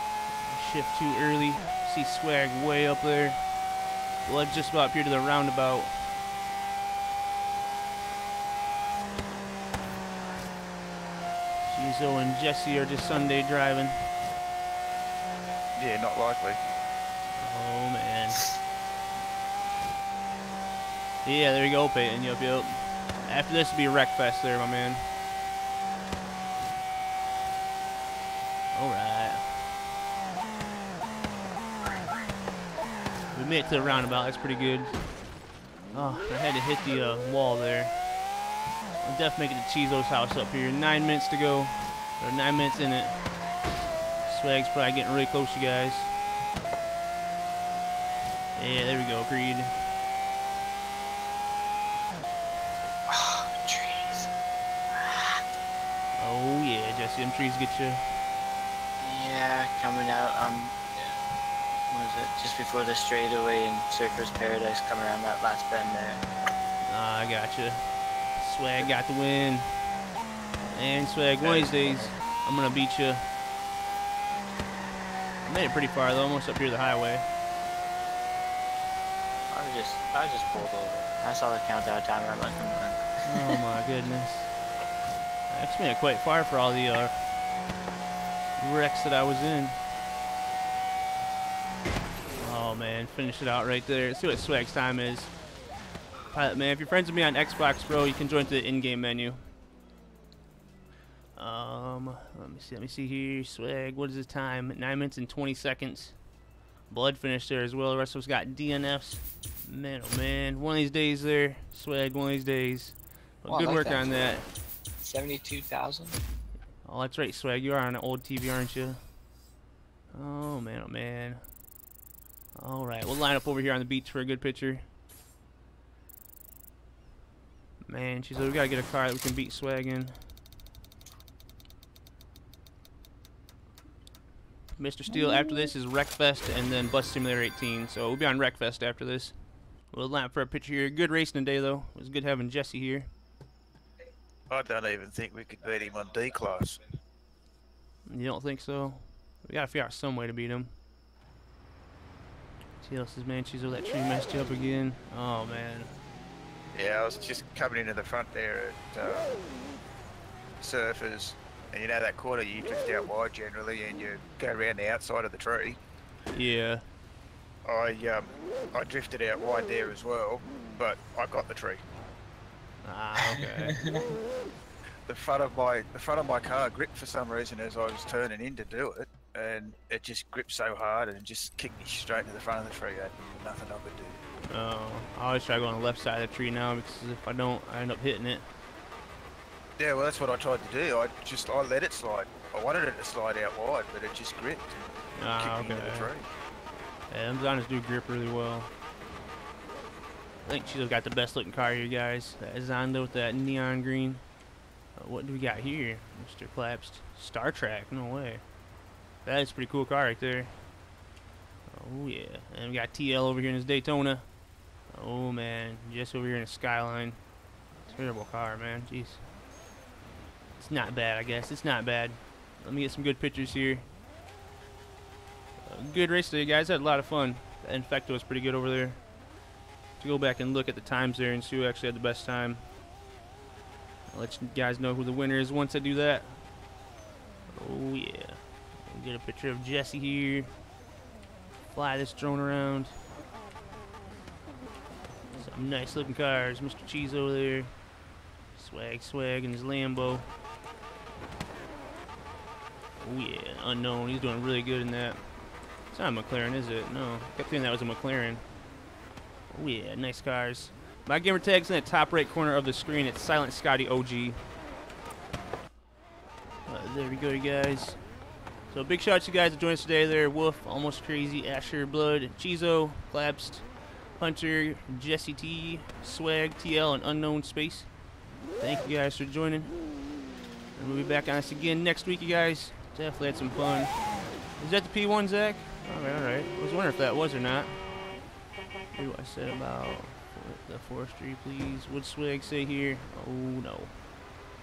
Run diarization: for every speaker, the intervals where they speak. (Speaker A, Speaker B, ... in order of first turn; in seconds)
Speaker A: 0.4-3.5, 4.2-5.9, 11.7-14.0, 17.4-18.5, 21.2-25.1, 28.7-29.5, 33.3-35.1, 35.9-38.0, 39.0-43.2, 44.2-46.1, 48.5-49.8, 56.2-58.1, 66.8-69.7, 70.7-73.2, 75.4-77.3, 83.2-84.5, 85.5-87.2, 88.6-89.8, 92.4-95.3, 96.3-99.4, 101.3-106.2, 106.9-114.5, 116.8-119.0, 120.1-121.4, 122.6-124.8, 127.9-130.2, 134.8-143.1, 148.1-150.7, 152.8-155.9, 166.3-166.8, 172.8-173.8, 184.5-188.5, 195.2-196.1, 197.1-198.7, 200.4-204.2, 204.9-208.4, 209.2-210.6, 211.7-214.3, 214.9-217.2, 217.9-219.2, 220.6-223.9, 225.7-229.0, 230.0-232.6, 234.1-236.4, 237.5-240.5, 241.7-243.0, 245.3-247.7, 248.5-250.3, 253.0-255.3, 255.9-258.4, 259.5-264.4, 266.7-268.0, 268.7-277.9, 278.6-279.8, 280.7-284.0, 284.6-287.8, 288.9-294.0
Speaker B: 15.8-16.6, 144.5-146.8, 156.7-159.3, 160.6-165.8, 167.6-171.9, 175.0-184.2, 189.8-194.8, 195.3-196.3
Speaker C: 53.1-54.3, 54.9-55.4, 59.0-61.2, 61.9-66.2, 71.4-72.1, 79.5-83.6, 113.5-114.1, 115.0-116.2, 173.3-174.0